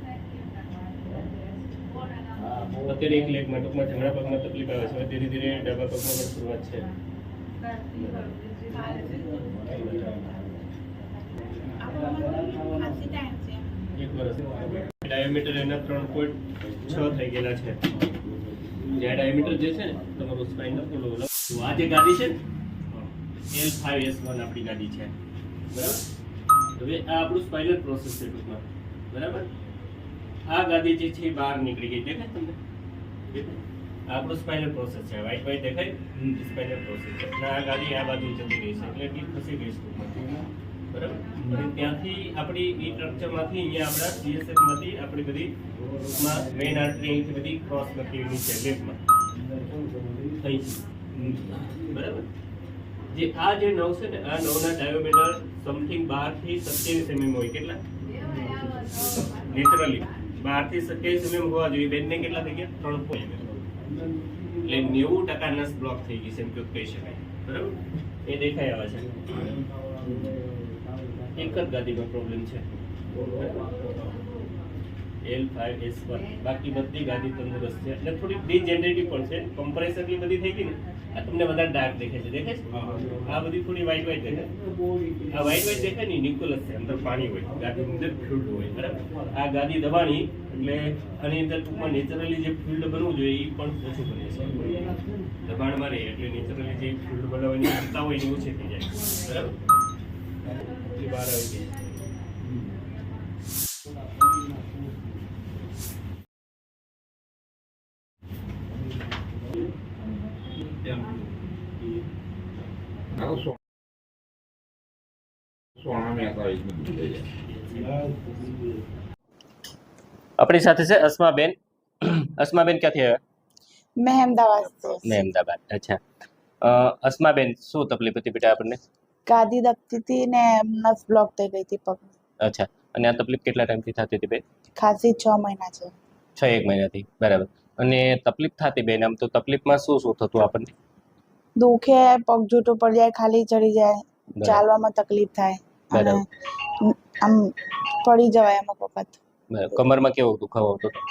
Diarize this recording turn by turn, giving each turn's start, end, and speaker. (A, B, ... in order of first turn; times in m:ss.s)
0:02.8-0:06.9 A
0:08.7-0:09.7 B
0:11.8-0:13.7 B
0:14.0-0:17.8 A
0:18.9-0:22.4 A
0:23.5-0:25.1 A
0:25.7-0:26.0 A
0:26.8-0:29.5 A
0:30.5-0:32.6 A
0:33.3-0:40.3 A
0:40.9-0:45.5 A
0:46.1-0:49.0 A
0:50.4-0:50.8 A
0:51.8-0:52.2 A
0:53.1-0:57.8 A
0:59.2-1:03.5 A
1:04.6-1:09.5 A
1:11.3-1:12.7 A
1:15.2-1:24.5 A
1:25.3-1:34.9 A
1:35.4-1:39.5 A
1:40.8-1:41.7 A
1:53.2-1:53.5 C
1:55.8-1:57.3 C
1:57.5-1:58.0 A
2:00.4-2:03.2 A
2:04.0-2:05.2 B
2:05.0-2:06.0 A
2:06.6-2:08.8 A
2:09.3-2:12.1 B
2:12.4-2:14.4 A
2:14.8-2:15.9 B
2:16.4-2:20.7 A
2:21.6-2:26.2 B
2:24.4-2:24.6 A
2:25.9-2:26.2 A
2:26.8-2:29.2 B
2:29.5-2:31.0 A